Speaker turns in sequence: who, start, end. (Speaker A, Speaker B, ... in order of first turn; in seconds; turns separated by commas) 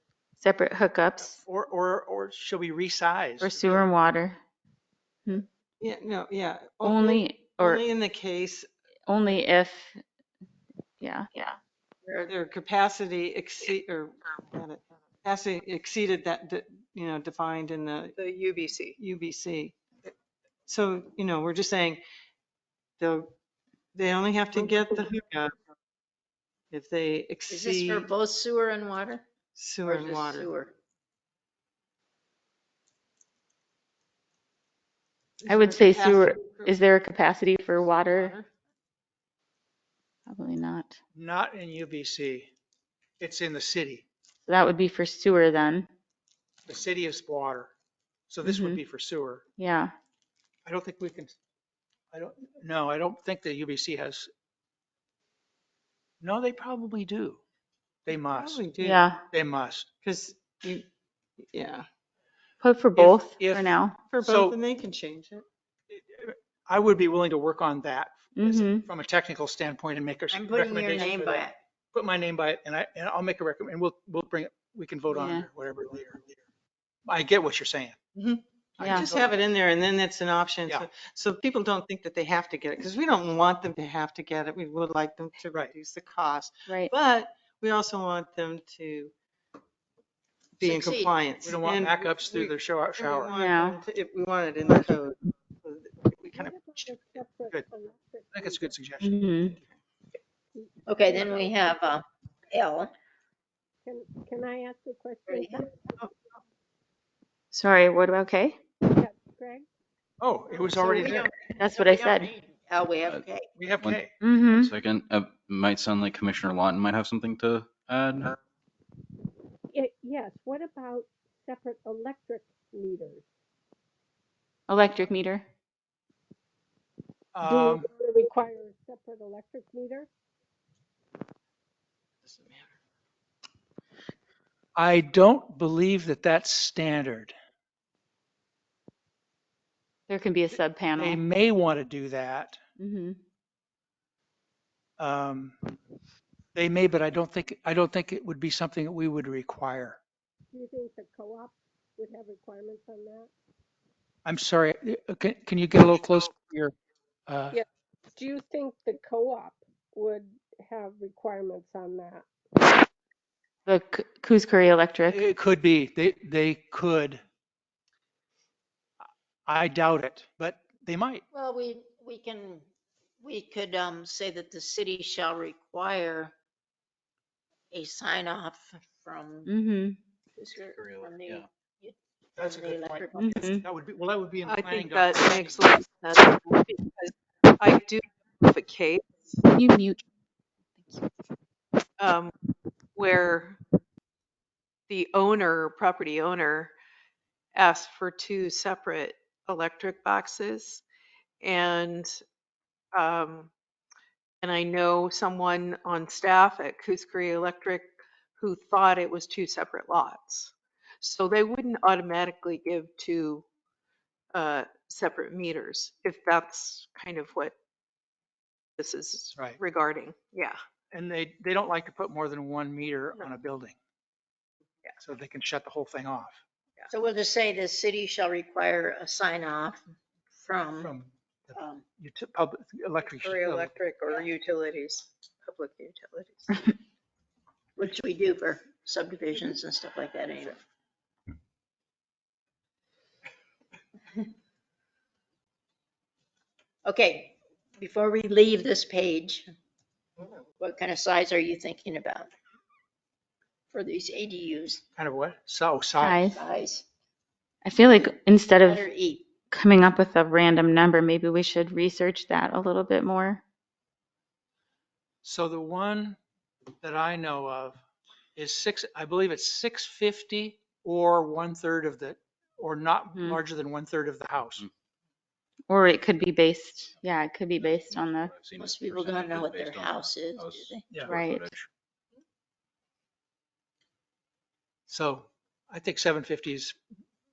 Speaker A: 0.4-1.4, Speaker B: 1.4-3.9, Speaker A: 3.4-4.4, Speaker C: 5.8-8.7, Speaker A: 6.8-7.8, Speaker A: 9.1-10.0, Speaker A: 11.0-11.3, Speaker C: 12.3-18.1, Speaker D: 18.1-19.0, Speaker C: 19.0-19.8, Speaker C: 20.7-22.0, Speaker C: 23.0-23.3, Speaker C: 23.9-25.5, Speaker D: 24.5-25.0, Speaker C: 26.7-28.1, Speaker E: 27.5-29.2, Speaker C: 29.6-30.5, Speaker E: 29.8-30.7, Speaker A: 35.5-38.3, Speaker C: 35.6-36.0, Speaker D: 35.9-36.2, Speaker A: 40.3-41.0, Speaker B: 41.1-42.5, Speaker B: 43.2-44.0, Speaker A: 44.5-45.9, Speaker B: 46.7-47.7, Speaker B: 48.3-49.4, Speaker A: 48.4-48.8, Speaker A: 49.6-49.9, Speaker B: 50.6-51.4, Speaker B: 52.1-54.3, Speaker B: 56.2-57.4, Speaker B: 58.0-58.6, Speaker C: 58.3-59.0, Speaker A: 58.8-59.2, Speaker B: 59.3-59.9, Speaker D: 60.0-60.8, Speaker A: 62.6-64.0, Speaker B: 63.0-64.6, Speaker D: 64.1-65.4, Speaker C: 64.3-65.3, Speaker B: 65.9-76.4, Speaker A: 68.3-68.8, Speaker E: 70.3-71.6, Speaker A: 75.1-75.5, Speaker B: 77.1-78.0, Speaker C: 78.2-89.1, Speaker B: 78.8-79.3, Speaker A: 78.8-79.0, Speaker D: 79.3-80.3, Speaker D: 81.4-84.4, Speaker C: 90.6-92.3, Speaker E: 90.6-91.1, Speaker B: 91.4-93.4, Speaker D: 91.7-92.5, Speaker D: 93.1-93.3, Speaker C: 93.1-96.5, Speaker A: 93.3-93.8, Speaker F: 96.3-98.7, Speaker B: 98.3-99.7, Speaker A: 99.0-99.6, Speaker F: 100.5-101.5, Speaker E: 100.8-102.9, Speaker F: 103.8-105.9, Speaker E: 105.3-105.7, Speaker A: 107.5-108.6, Speaker F: 108.9-109.7, Speaker B: 110.2-111.3, Speaker E: 110.7-113.5, Speaker A: 111.6-112.3, Speaker B: 113.5-114.1, Speaker A: 114.2-114.7, Speaker G: 114.5-118.4, Speaker F: 119.7-123.2, Speaker A: 124.7-125.5, Speaker B: 127.3-127.9, Speaker F: 127.4-130.1, Speaker B: 134.8-137.3, Speaker A: 140.1-141.2, Speaker B: 141.0-142.6, Speaker A: 142.8-143.2, Speaker B: 145.0-145.6, Speaker B: 146.5-150.0, Speaker F: 150.5-153.3, Speaker B: 154.2-156.7, Speaker B: 157.3-157.6, Speaker F: 157.5-162.3, Speaker A: 163.7-165.2, Speaker B: 165.1-167.2, Speaker B: 169.4-171.2, Speaker E: 171.3-172.7, Speaker E: 173.2-176.3, Speaker E: 177.7-179.5, Speaker A: 179.5-180.0, Speaker E: 180.3-183.4, Speaker G: 180.6-181.4, Speaker B: 182.4-185.8, Speaker A: 183.2-183.6, Speaker D: 184.4-189.4, Speaker A: 189.5-190.0, Speaker D: 192.0-192.3, Speaker D: 192.9-193.6, Speaker D: 194.9-196.7, Speaker D: 197.5-200.8, Speaker D: 201.4-202.1, Speaker D: 202.9-203.5, Speaker D: 204.4-213.4, Speaker D: 214.3-217.5, Speaker D: 218.8-220.6, Speaker B: 220.9-223.8, Speaker B: 225.0-226.4, Speaker E: 226.9-229.8, Speaker E: 230.3-230.9, Speaker B: 230.8-233.7, Speaker E: 231.5-231.8, Speaker D: 233.2-236.5, Speaker E: 237.8-240.6, Speaker E: 246.8-249.5, Speaker E: 250.6-252.3, Speaker E: 253.7-254.8, Speaker B: 255.0-256.2, Speaker A: 256.0-256.4, Speaker E: 256.2-256.9, Speaker A: 257.6-258.9, Speaker E: 258.6-259.3, Speaker A: 259.5-263.4, Speaker B: 265.2-266.2, Speaker B: 266.8-267.8, Speaker B: 268.4-274.7, Speaker A: 273.1-273.4, Speaker A: 275.7-278.3, Speaker G: 277.6-281.7, Speaker E: 278.6-280.8, Speaker B: 280.9-281.2, Speaker A: 281.1-281.4, Speaker B: 284.9-286.8